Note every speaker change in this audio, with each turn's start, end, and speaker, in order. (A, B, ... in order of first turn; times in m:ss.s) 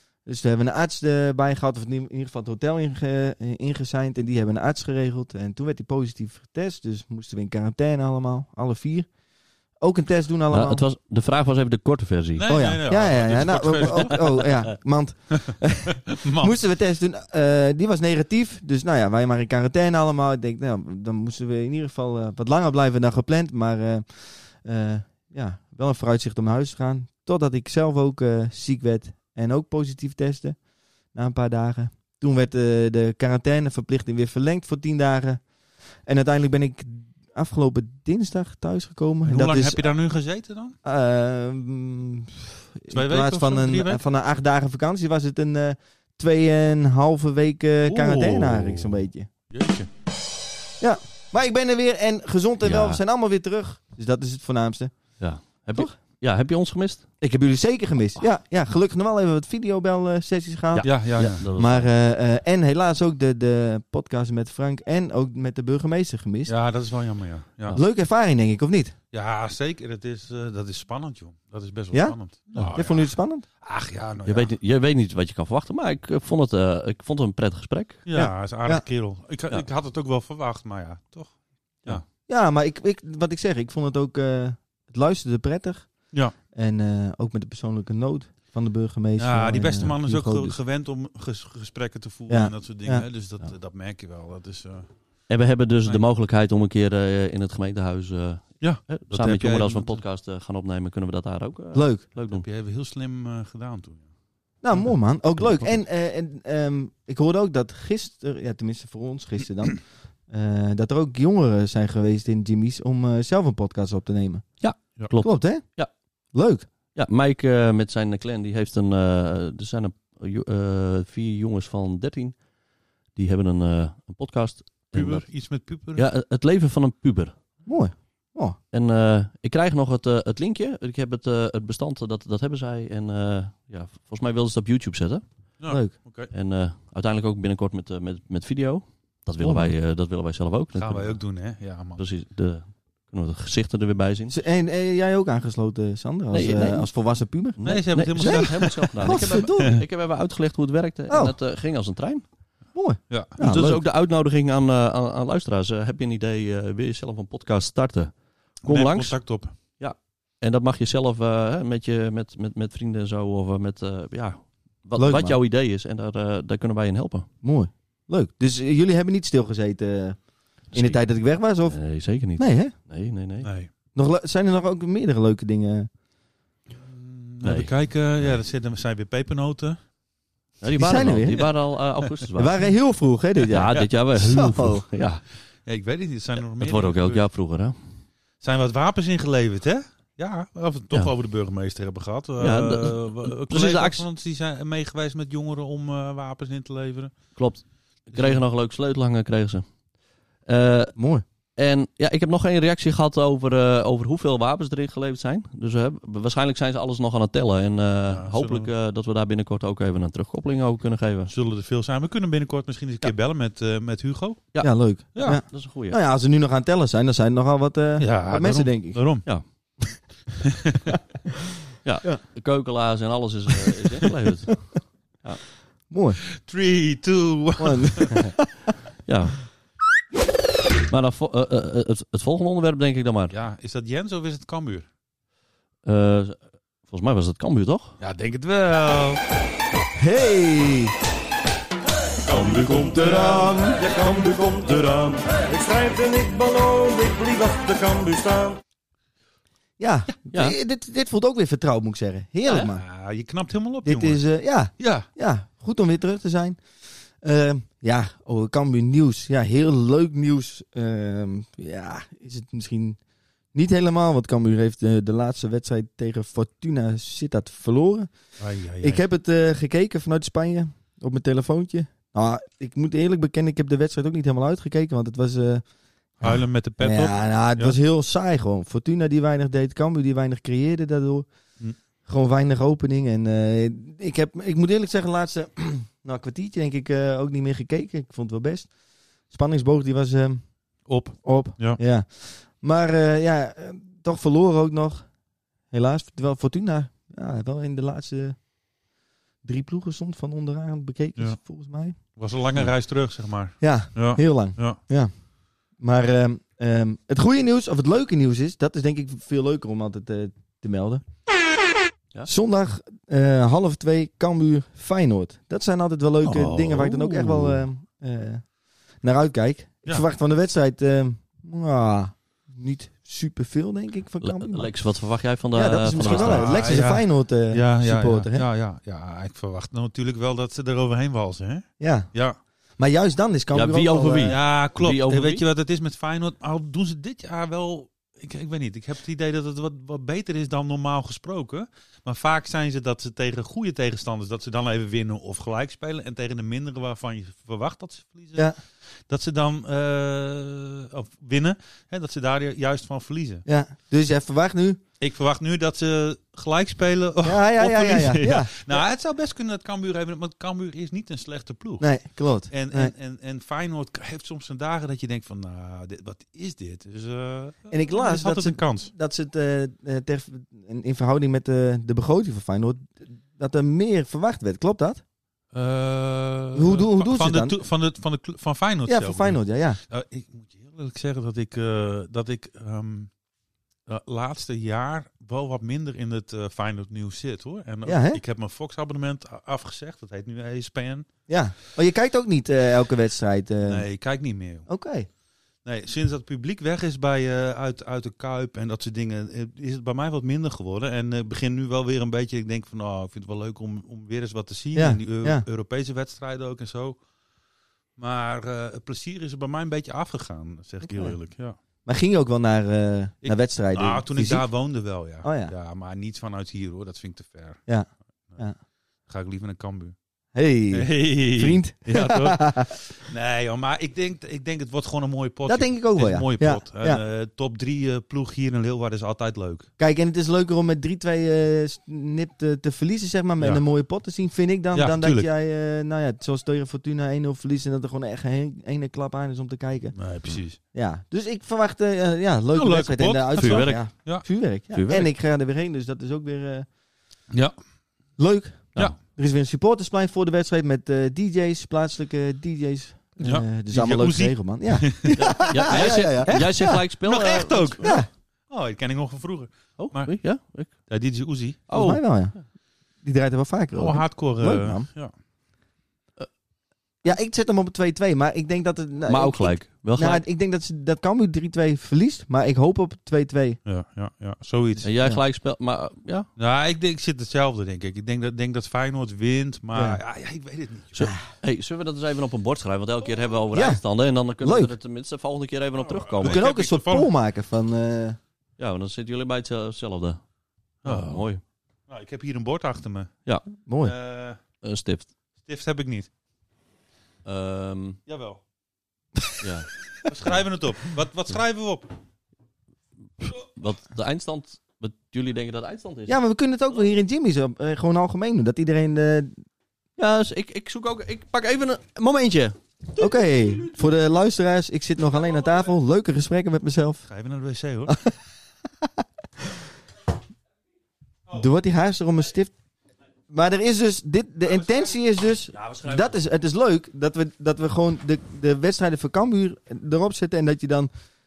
0:00.2-0:09.1 A
0:09.8-0:10.8 A
0:10.5-0:12.4 B
0:12.4-0:14.5 C
0:12.5-0:35.5 A
0:13.8-0:14.1 B
0:16.1-0:16.6 C
0:36.0-0:39.9 A
0:39.2-0:40.7 C
0:40.8-0:49.3 A
0:42.9-0:44.0 C
0:47.8-0:49.0 C
0:49.5-0:49.9 C
0:50.8-0:55.2 A
0:52.6-0:53.0 B
0:55.2-0:57.0 B
0:57.2-1:06.5 A
1:00.7-1:01.9 B
1:00.8-1:01.4 C
1:06.5-1:07.8 C
1:07.7-1:08.9 A
1:09.1-1:14.5 C
1:11.9-1:12.2 A
1:12.7-1:13.4 A
1:14.2-1:18.0 B
1:18.0-1:22.0 C
1:18.1-1:18.8 A
1:22.3-1:30.6 A
1:29.2-1:34.9 C
1:32.3-1:33.1 A
1:35.3-1:42.4 B
1:38.6-1:40.0 C
1:41.7-1:42.0 A
1:42.3-1:44.1 C
1:44.6-1:55.8 A
1:54.6-1:55.9 B
1:56.3-1:56.6 A
1:56.9-2:02.4 B
2:03.1-2:05.3 B
2:04.9-2:06.0 C
2:06.0-2:07.4 B
2:07.6-2:08.6 A
2:08.7-2:15.4 B
2:15.6-2:16.3 C
2:15.7-2:15.9 A
2:16.3-2:21.2 B
2:19.4-2:19.7 A
2:20.8-2:22.0 C
2:22.0-2:24.3 B
2:24.3-2:29.8 A
2:26.3-2:26.9 B
2:27.6-2:32.2 B
2:27.6-2:29.7 C
2:31.1-2:31.4 A
2:32.7-2:33.8 A
2:33.4-2:47.3 B
2:38.6-2:39.5 C
2:45.0-2:45.4 A
2:47.4-2:52.7 A
2:50.7-2:51.0 B
2:51.7-2:53.5 B
2:53.4-2:53.7 C
2:53.9-2:55.9 A
2:56.8-2:59.9 C
2:57.4-2:57.7 B
3:00.6-3:02.6 B
3:00.8-3:01.5 A
3:01.3-3:02.1 C
3:02.4-3:04.8 A
3:03.5-3:05.2 B
3:03.7-3:04.4 C
3:05.6-3:07.2 C
3:06.6-3:07.7 B
3:08.4-3:17.4 C
3:12.4-3:14.0 B
3:17.3-3:19.6 B
3:18.1-3:18.4 C
3:20.4-3:20.9 B
3:21.0-3:21.2 A
3:21.6-3:31.3 B
3:28.1-3:28.7 C
3:31.3-3:34.5 C
3:34.5-3:36.0 B
3:34.6-3:39.0 A
3:35.1-3:35.4 C
3:38.0-3:39.3 C
3:41.8-3:45.4 B
3:45.9-3:46.2 A
3:46.4-3:48.2 C
3:47.6-3:48.5 A
3:49.0-3:49.4 B
3:50.9-3:53.3 B
3:53.3-3:54.8 C
3:55.8-3:58.0 B
3:58.0-3:59.2 C
3:59.9-4:00.9 A
4:02.3-4:03.8 B
4:02.4-4:03.6 C
4:04.4-4:05.1 B
4:05.6-4:08.6 D
4:09.8-4:12.8 A
4:10.3-4:10.6 B
4:12.5-4:14.2 C
4:13.8-4:23.0 A
4:14.8-4:15.0 C
4:23.5-4:28.1 A
4:28.4-4:29.0 C
4:28.8-4:35.6 A
4:36.2-4:41.3 A
4:36.2-4:37.8 C
4:42.0-4:48.7 A
4:49.3-4:55.1 A
4:50.8-4:51.8 C
4:55.7-4:58.4 A
4:59.4-5:02.0 A
5:02.1-5:04.8 C
5:03.6-5:05.1 A
5:05.8-5:11.0 A
5:12.3-5:18.5 A
5:16.2-5:17.5 C
5:19.0-5:24.7 A
5:24.2-5:26.6 B
5:25.5-5:28.4 A
5:26.0-5:32.4 C
5:31.8-5:32.1 A
5:32.8-5:34.4 A
5:33.5-5:35.4 B
5:34.3-5:48.5 C
5:49.1-5:53.4 C
5:53.4-5:54.8 A
5:55.0-6:08.9 C
5:57.2-5:58.8 A
6:01.8-6:02.9 A
6:07.7-6:15.0 A
6:15.5-6:23.1 C
6:16.5-6:17.5 A
6:18.8-6:19.8 A
6:23.9-6:31.0 C
6:27.8-6:28.2 A
6:31.3-6:33.9 A
6:33.7-6:34.7 C
6:34.7-6:35.1 A
6:35.6-6:47.0 C
6:44.7-6:45.4 A
6:48.0-6:51.6 C
6:50.8-6:51.1 A
6:51.8-6:54.5 A
6:53.2-6:57.6 C
6:55.2-6:55.5 A
6:57.7-6:58.6 A
6:59.0-7:00.0 C
7:00.3-7:02.7 A
7:00.7-7:09.7 C
7:05.5-7:07.0 A
7:09.8-7:26.7 A
7:14.7-7:15.3 C
7:19.9-7:20.6 C
7:22.5-7:24.2 C
7:23.4-7:24.1 B
7:24.7-7:25.1 B
7:28.2-7:36.8 A
7:33.2-7:35.2 C
7:35.2-7:37.8 B
7:37.0-7:41.6 C
7:37.8-7:38.1 A
7:39.8-7:40.9 B
7:41.7-7:42.0 B
7:41.7-7:42.4 A
7:43.0-7:44.9 A
7:43.7-7:45.1 C
7:47.0-7:53.6 A
7:49.1-7:50.2 B
7:53.6-7:54.8 C
7:54.8-7:56.3 B
7:56.4-8:01.1 C
7:59.7-8:00.0 A
8:00.9-8:06.4 B
8:03.5-8:03.8 A
8:04.4-8:04.7 A
8:05.8-8:07.1 C
8:06.2-8:08.2 A
8:08.6-8:10.2 B
8:10.8-8:11.2 C
8:10.8-8:11.4 B
8:11.9-8:13.1 C
8:13.6-8:13.9 A
8:13.8-8:14.4 C
8:14.6-8:15.1 B
8:15.4-8:16.1 C
8:17.2-8:18.0 B
8:18.1-8:18.4 C
8:19.4-8:19.7 B
8:20.0-8:21.9 C
8:23.3-8:26.2 B
8:26.1-8:29.4 A
8:30.0-8:32.5 B
8:33.0-8:37.0 A
8:37.1-8:38.0 C
8:41.3-8:42.5 A
8:43.3-8:50.9 A
8:45.5-8:46.1 B